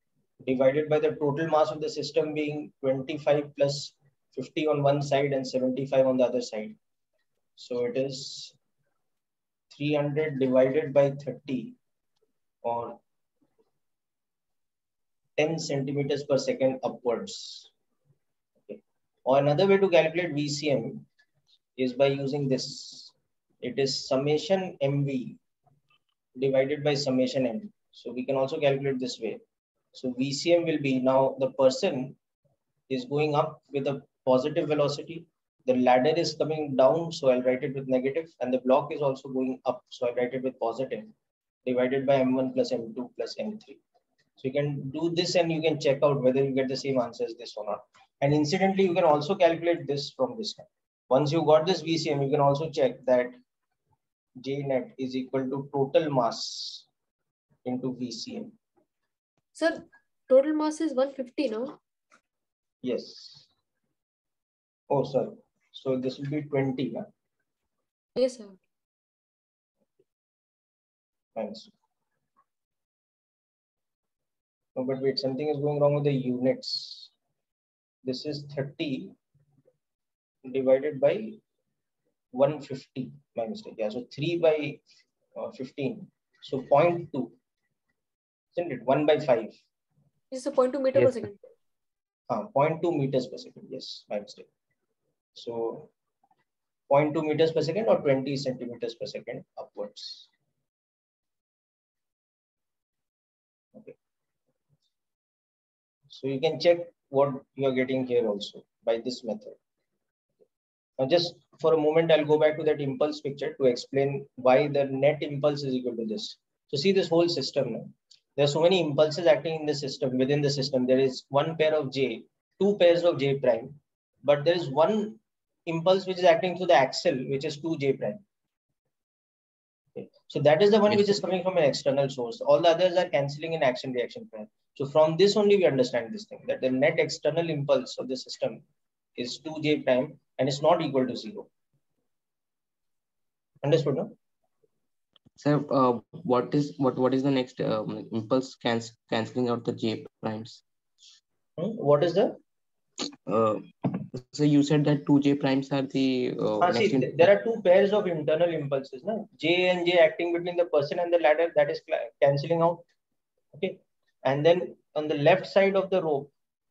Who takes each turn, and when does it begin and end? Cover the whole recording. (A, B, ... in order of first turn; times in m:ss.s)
0:00.4-0:06.8 A
0:07.6-0:08.5 A
0:09.7-0:11.8 A
0:12.6-0:13.0 A
0:15.4-0:17.7 A
0:18.7-0:21.0 A
0:21.8-0:25.4 A
0:26.3-0:29.4 A
0:29.9-0:32.2 A
0:32.9-0:41.1 A
0:41.6-0:43.8 A
0:44.4-0:53.3 A
0:54.4-0:56.8 A
0:57.6-0:58.5 A
0:59.6-1:01.8 B
1:02.8-1:03.5 A
1:04.9-1:07.1 A
1:08.2-1:08.6 B
1:11.4-1:11.7 A
1:14.7-1:17.1 A
1:18.0-1:19.1 A
1:20.4-1:21.4 A
1:22.3-1:24.8 A
1:25.3-1:27.3 A
1:28.5-1:29.6 A
1:30.3-1:31.4 B
1:32.3-1:34.5 A
1:35.3-1:35.9 A
1:36.9-1:40.3 A
1:46.1-1:49.6 A
1:51.0-2:08.2 A
2:10.0-2:18.6 A
2:19.2-2:21.5 A
2:23.6-2:24.1 A
2:25.4-2:30.6 C
2:31.6-2:32.4 A
2:33.3-2:37.3 C
2:36.6-2:42.8 A
2:43.5-2:46.3 A